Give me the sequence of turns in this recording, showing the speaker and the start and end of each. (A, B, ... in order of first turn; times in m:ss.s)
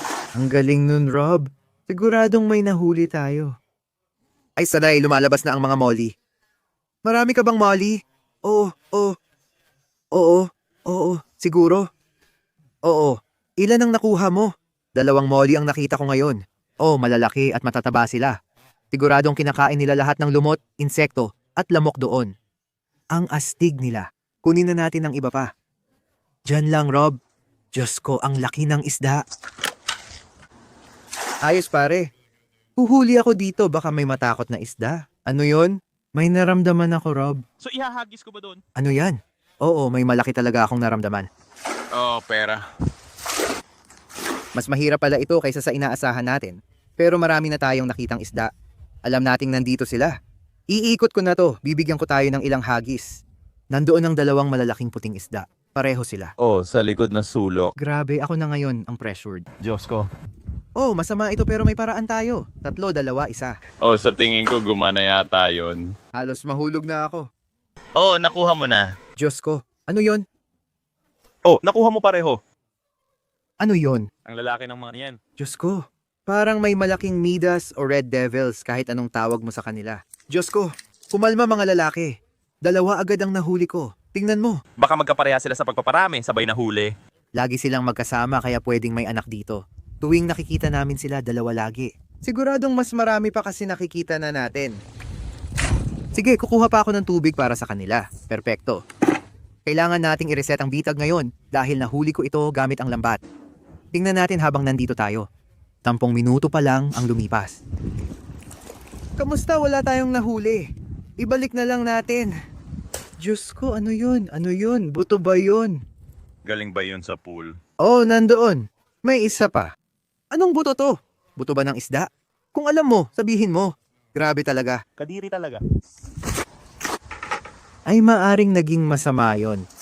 0:00.4-0:03.5 A
0:04.6-0:06.1 A
0:07.0-0:09.1 A
0:10.1-0:11.8 A
0:12.9-0:18.3 A
0:18.9-0:22.3 A
0:23.1-0:25.5 A
0:26.5-0:27.2 A
0:27.8-0:29.2 A
0:31.4-0:32.0 A
0:32.8-0:37.4 A
0:37.6-0:38.6 B
0:38.8-0:41.2 A
0:41.9-0:42.6 B
0:44.6-0:48.5 A
0:49.1-0:50.1 A
0:50.7-0:53.1 A
0:53.7-0:56.3 A
0:56.4-0:57.7 B
0:57.8-0:59.4 A
0:59.6-1:00.1 B
1:00.8-1:03.5 A
1:03.8-1:05.9 B
1:06.2-1:07.2 A
1:08.0-1:08.9 B
1:09.2-1:10.2 A
1:11.4-1:12.4 B
1:13.6-1:14.0 A
1:14.2-1:15.2 B
1:15.4-1:24.6 A
1:24.8-1:26.9 B
1:27.4-1:34.8 A
1:36.2-1:38.8 A
1:39.7-1:43.2 A
1:43.9-1:45.2 A
1:45.8-1:47.6 A
1:49.2-1:50.6 A
1:51.2-1:52.3 A
1:53.2-1:55.8 A
1:56.4-1:57.6 B
1:57.8-1:59.7 A
2:00.3-2:04.8 A
2:05.0-2:05.6 B
2:07.9-2:09.6 A